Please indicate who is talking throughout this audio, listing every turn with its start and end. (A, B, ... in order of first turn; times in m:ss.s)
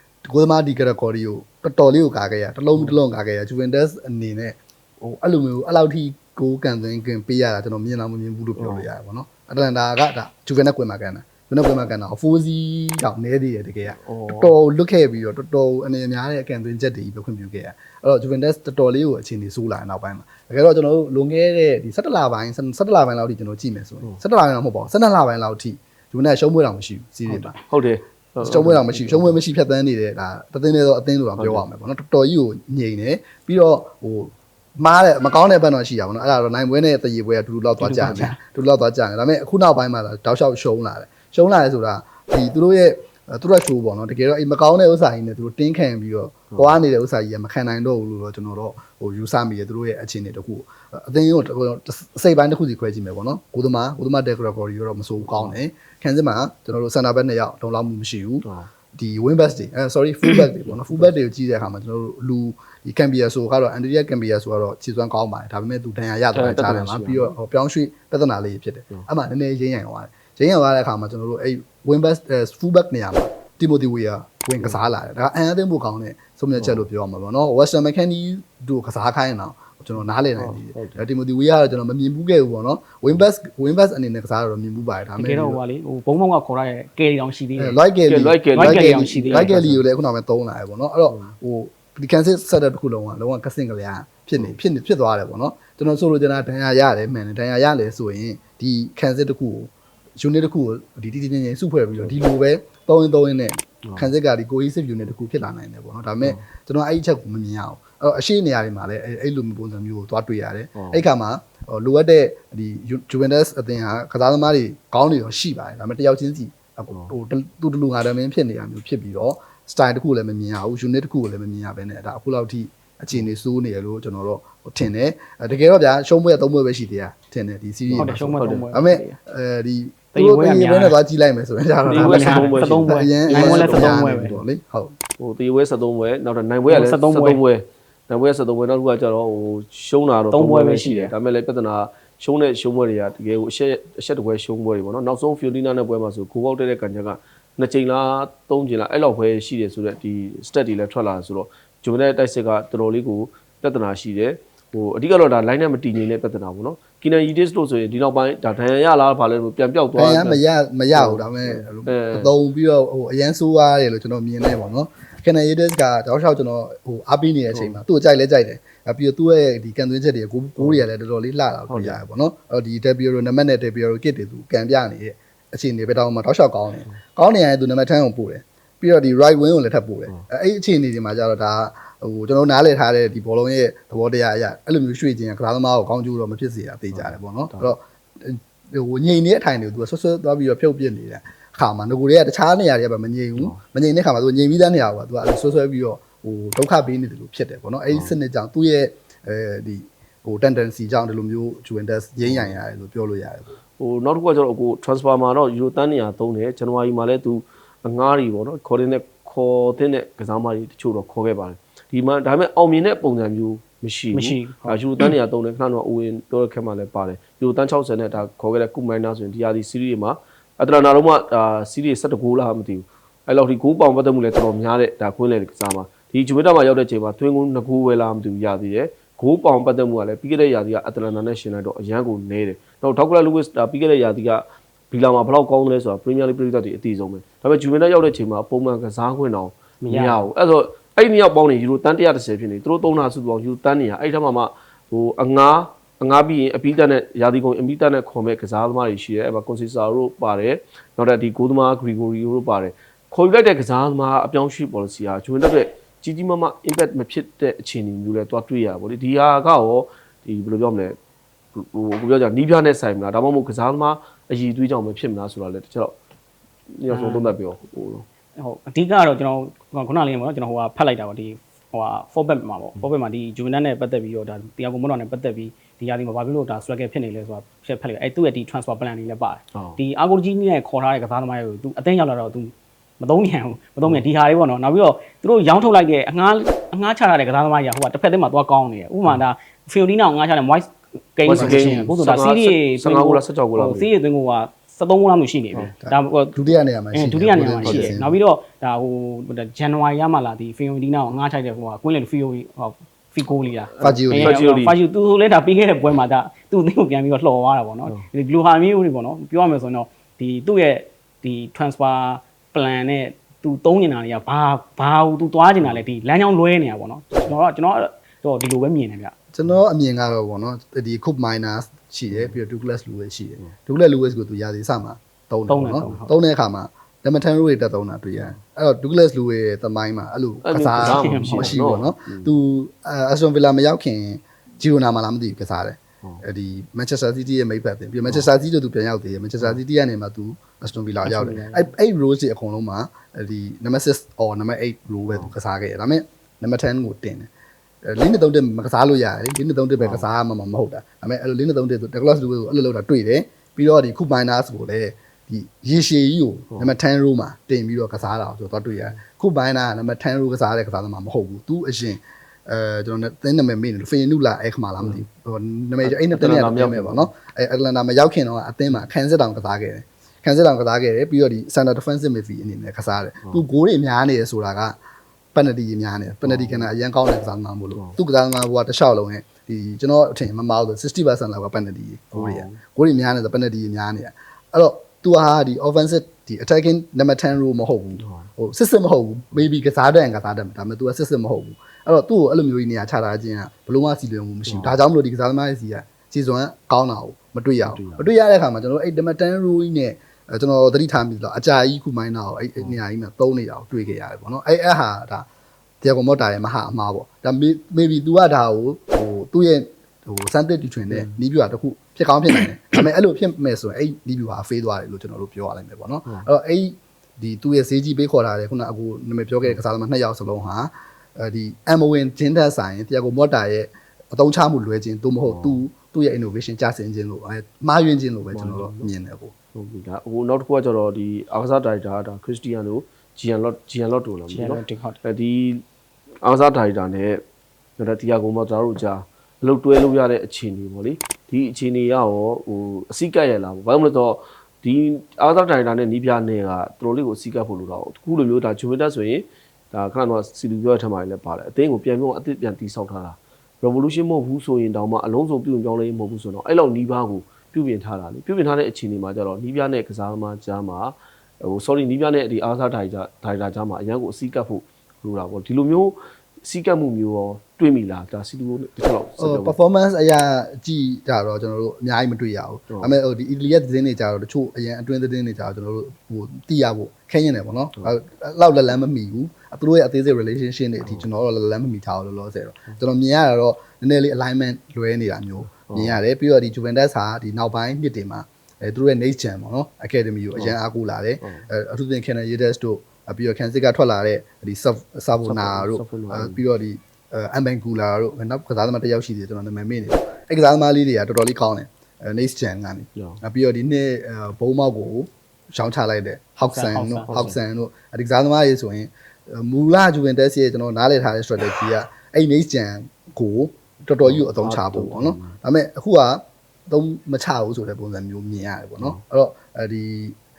0:00.2-0:27.6 A
0:02.8-0:03.0 B
0:08.6-0:08.9 B
0:14.0-0:14.6 B
0:27.3-0:29.4 B
0:28.4-1:25.6 A
0:31.4-0:31.6 B
0:37.8-0:38.4 C
0:46.5-0:46.8 B
0:55.2-0:55.6 B
1:00.4-1:01.1 B
1:06.3-1:07.4 B
1:16.6-1:16.9 B
1:20.0-1:21.0 B
1:25.2-1:27.8 C
1:27.6-2:14.9 A
1:28.1-1:29.8 B
1:28.6-1:29.5 C
1:50.8-1:51.0 B
2:07.9-2:08.7 B
2:08.0-2:09.2 C
2:10.1-2:11.0 C
2:11.9-2:14.4 C
2:11.9-2:14.1 B
2:15.2-2:40.4 B
2:16.7-2:17.4 C
2:20.3-2:21.1 C
2:39.9-3:23.6 A
2:40.9-2:42.3 B
2:47.5-2:47.8 B
2:50.6-2:50.9 B
2:51.7-2:52.0 B
3:06.9-3:07.7 B
3:17.9-3:18.2 B
3:22.2-3:22.6 B
3:23.8-4:20.9 B
3:34.1-3:34.8 C
3:59.8-4:00.3 C
4:21.5-4:25.9 B
4:26.8-4:28.0 B
4:26.9-4:27.4 C
4:28.4-4:56.4 C
4:51.2-4:53.9 B
4:51.4-4:51.9 A
4:55.8-4:58.2 A
4:56.9-5:19.1 C
4:57.6-4:58.0 B
5:03.7-5:04.7 B
5:03.8-5:04.4 A
5:19.3-5:47.3 A
5:22.1-5:22.4 B
5:25.5-5:26.1 C
5:30.4-5:32.3 B
5:30.8-5:31.5 C
5:41.0-5:41.7 B
5:47.8-6:14.8 A
5:49.8-5:50.1 B
6:04.8-6:05.0 B
6:05.8-6:07.1 B
6:15.4-6:45.3 A
6:16.2-6:16.7 B
6:22.1-6:22.6 B
6:28.0-6:28.3 B
6:34.5-6:34.8 B
6:37.6-6:38.1 B
6:45.8-7:09.3 A
6:50.9-6:51.2 B
7:05.2-7:05.6 B
7:08.3-7:08.9 B
7:09.5-7:15.6 B
7:14.3-7:15.0 C
7:16.2-7:17.2 B
7:17.8-7:49.6 B
7:49.2-8:40.2 A
8:00.8-8:01.1 B
8:05.5-8:06.0 B
8:11.2-8:11.5 B
8:15.2-8:16.4 B
8:26.5-8:27.3 C
8:34.0-8:35.4 B